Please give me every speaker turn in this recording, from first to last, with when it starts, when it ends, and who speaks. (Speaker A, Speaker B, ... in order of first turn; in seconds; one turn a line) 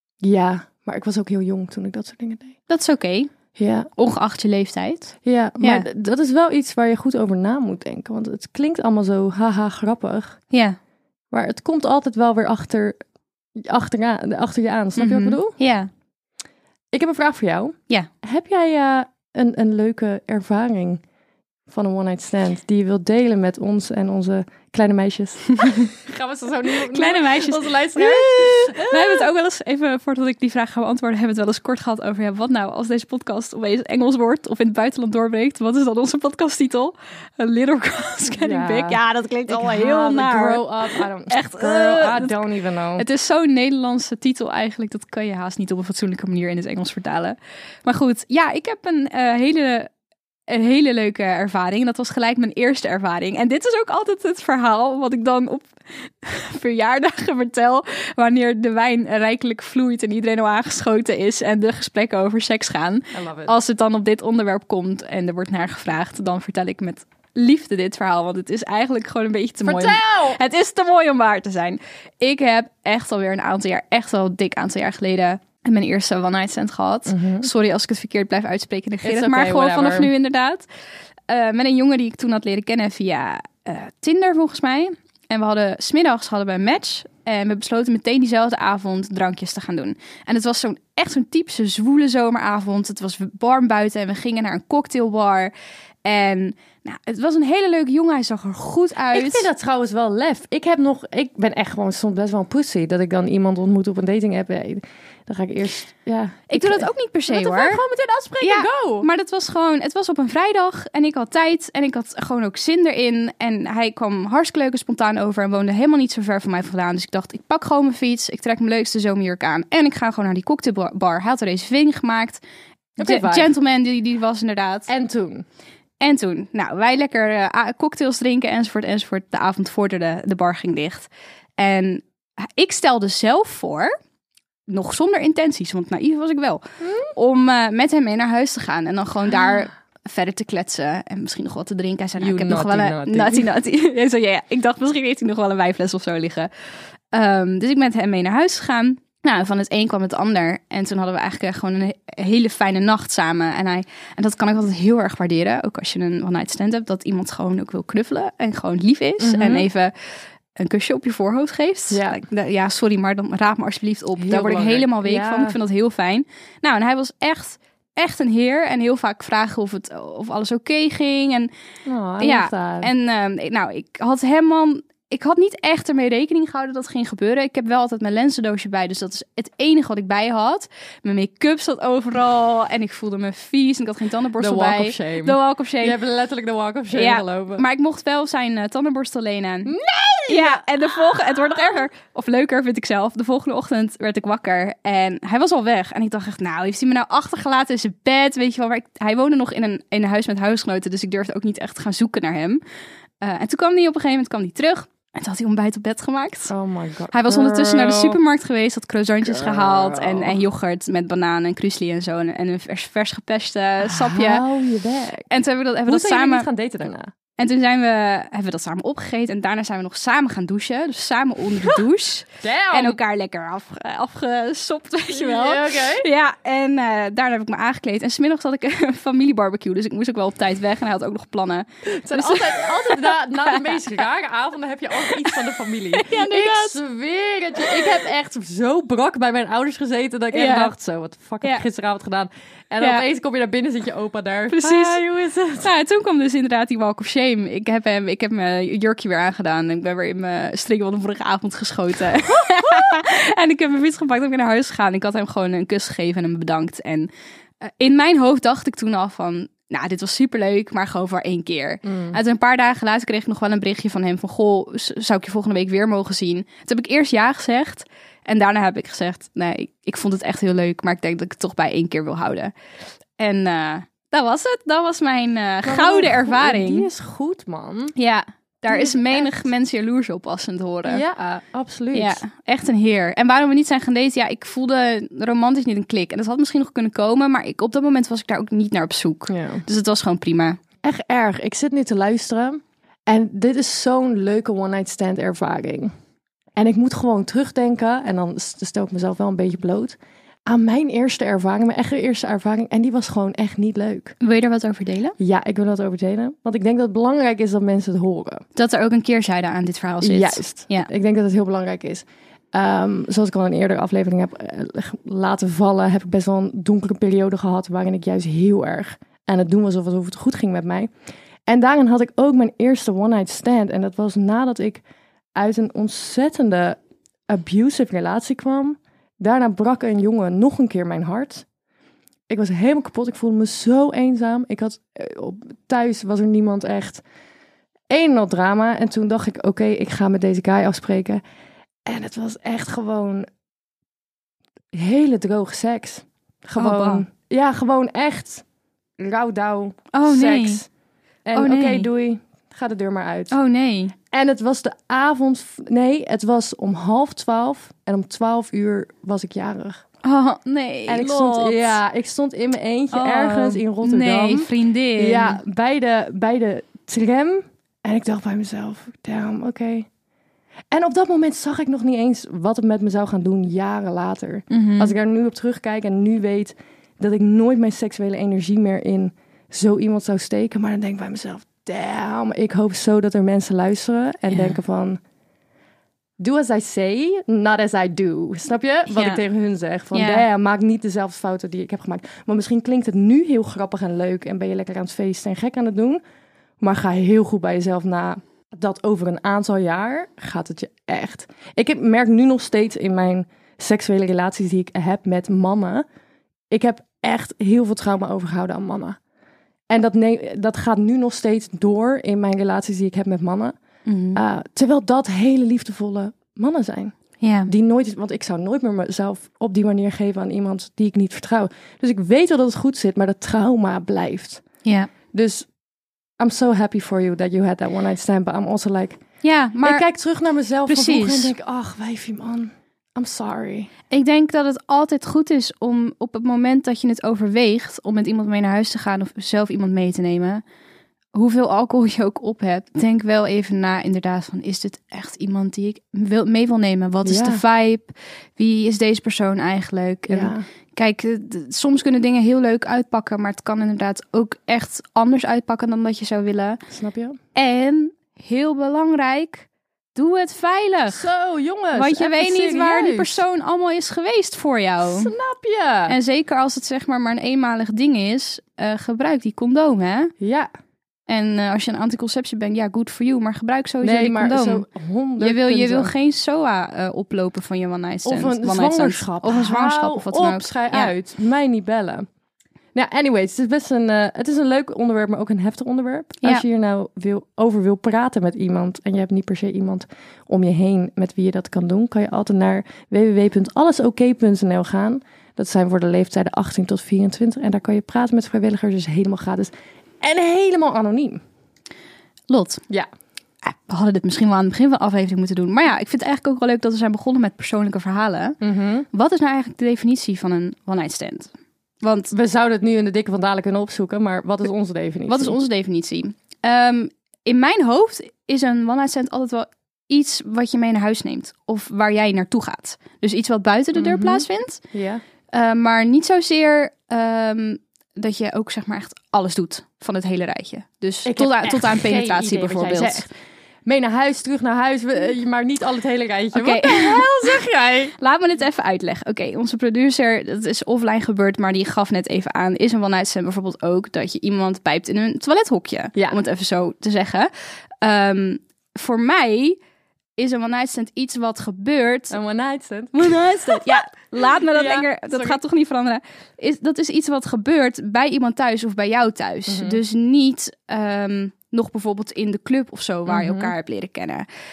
Speaker A: 0.2-2.5
Speaker B: 2.7-3.3
Speaker A: 3.6-3.9
Speaker B: 4.0-5.9
Speaker A: 5.2-10.4
Speaker B: 10.5-10.8
Speaker A: 11.3-13.0
Speaker A: 13.6-15.6
Speaker B: 14.9-15.9
Speaker A: 16.9-21.0
Speaker A: 21.7-29.3
Speaker B: 26.8-42.4
Speaker A: 38.4-43.1
Speaker B: 43.0-49.9
Speaker B: 50.5-80.7
Speaker A: 63.1-63.5
Speaker A: 69.6-70.4
Speaker A: 77.1-77.5
Speaker A: 79.0-80.1
Speaker B: 81.3-95.5
Speaker B: 96.0-99.5
Speaker A: 99.1-109.1
Speaker B: 106.5-107.8
Speaker B: 108.4-122.4
Speaker A: 123.0-123.5
Speaker B: 123.0-124.9
Speaker A: 124.9-125.4
Speaker B: 126.0-133.9
Speaker B: 134.7-146.5
Speaker A: 136.8-137.1
Speaker A: 142.2-143.5
Speaker B: 147.1-159.9
Speaker A: 159.2-159.7
Speaker B: 160.5-171.5
Speaker A: 161.9-162.2
Speaker A: 164.2-165.6
Speaker A: 171.9-172.9
Speaker B: 172.2-186.0
Speaker A: 184.4-187.7
Speaker B: 186.9-189.8
Speaker A: 189.7-191.8
Speaker B: 190.3-202.6
Speaker B: 203.2-206.5
Speaker A: 206.5-208.2
Speaker B: 207.1-214.4
Speaker A: 209.2-210.4
Speaker A: 213.8-215.3
Speaker B: 215.3-216.5
Speaker A: 215.9-217.1
Speaker B: 217.4-233.8
Speaker A: 222.4-223.0
Speaker A: 225.1-226.1
Speaker A: 231.9-245.7
Speaker B: 236.0-236.8
Speaker B: 240.3-240.7
Speaker B: 244.5-245.0
Speaker B: 245.6-257.1
Speaker B: 257.6-272.5
Speaker A: 261.9-262.2
Speaker B: 273.2-276.9
Speaker A: 275.6-277.9
Speaker B: 278.0-281.0
Speaker A: 278.7-279.5
Speaker A: 280.9-282.2
Speaker B: 281.9-290.6
Speaker A: 289.3-289.6
Speaker A: 290.8-295.9
Speaker A: 296.6-304.1
Speaker B: 304.2-305.1
Speaker A: 305.2-308.4
Speaker B: 308.5-310.9
Speaker A: 310.0-320.9
Speaker A: 321.5-324.8
Speaker A: 325.4-326.8
Speaker A: 327.3-331.4
Speaker A: 332.3-337.0
Speaker A: 337.9-341.2
Speaker A: 341.9-343.2
Speaker A: 344.7-348.4
Speaker B: 346.6-347.0
Speaker A: 349.0-350.7
Speaker B: 349.9-350.6
Speaker A: 351.2-353.4
Speaker B: 351.3-351.9
Speaker B: 353.3-353.9
Speaker A: 354.1-359.8
Speaker B: 360.0-361.8
Speaker A: 360.9-369.9
Speaker B: 362.9-365.4
Speaker A: 370.7-385.0
Speaker B: 374.5-374.9
Speaker B: 384.3-384.6
Speaker A: 386.2-396.0
Speaker B: 388.9-389.2
Speaker B: 389.9-390.3
Speaker A: 396.6-405.9
Speaker A: 406.5-409.0
Speaker A: 409.7-413.5
Speaker B: 413.9-414.2
Speaker A: 414.1-424.4
Speaker B: 417.2-417.5
Speaker B: 424.6-424.9
Speaker A: 425.1-425.5
Speaker A: 426.2-429.0
Speaker B: 429.2-429.9
Speaker A: 429.6-433.7
Speaker B: 430.7-431.4
Speaker B: 433.9-440.4
Speaker B: 441.1-456.6
Speaker A: 447.0-447.4
Speaker A: 450.1-450.4
Speaker A: 456.7-457.2
Speaker B: 457.4-461.0
Speaker A: 460.9-463.2
Speaker B: 461.7-465.1
Speaker A: 464.8-466.0
Speaker B: 465.9-470.1
Speaker A: 470.2-470.5
Speaker B: 471.1-474.6
Speaker A: 473.8-475.9
Speaker B: 475.2-480.9
Speaker A: 478.0-482.1
Speaker A: 482.7-501.2
Speaker B: 502.3-502.6
Speaker B: 503.4-508.4
Speaker A: 508.4-508.9
Speaker B: 508.9-512.1
Speaker A: 512.1-515.4
Speaker B: 515.1-524.6
Speaker A: 523.8-525.0
Speaker B: 525.3-533.0
Speaker A: 531.0-533.1
Speaker A: 533.6-537.9
Speaker B: 536.3-537.2
Speaker B: 538.0-547.3
Speaker A: 546.0-546.2
Speaker B: 547.8-549.6
Speaker B: 550.2-552.2
Speaker A: 552.1-553.9
Speaker B: 552.9-564.2
Speaker A: 554.5-555.4
Speaker A: 559.5-559.8
Speaker A: 563.1-563.5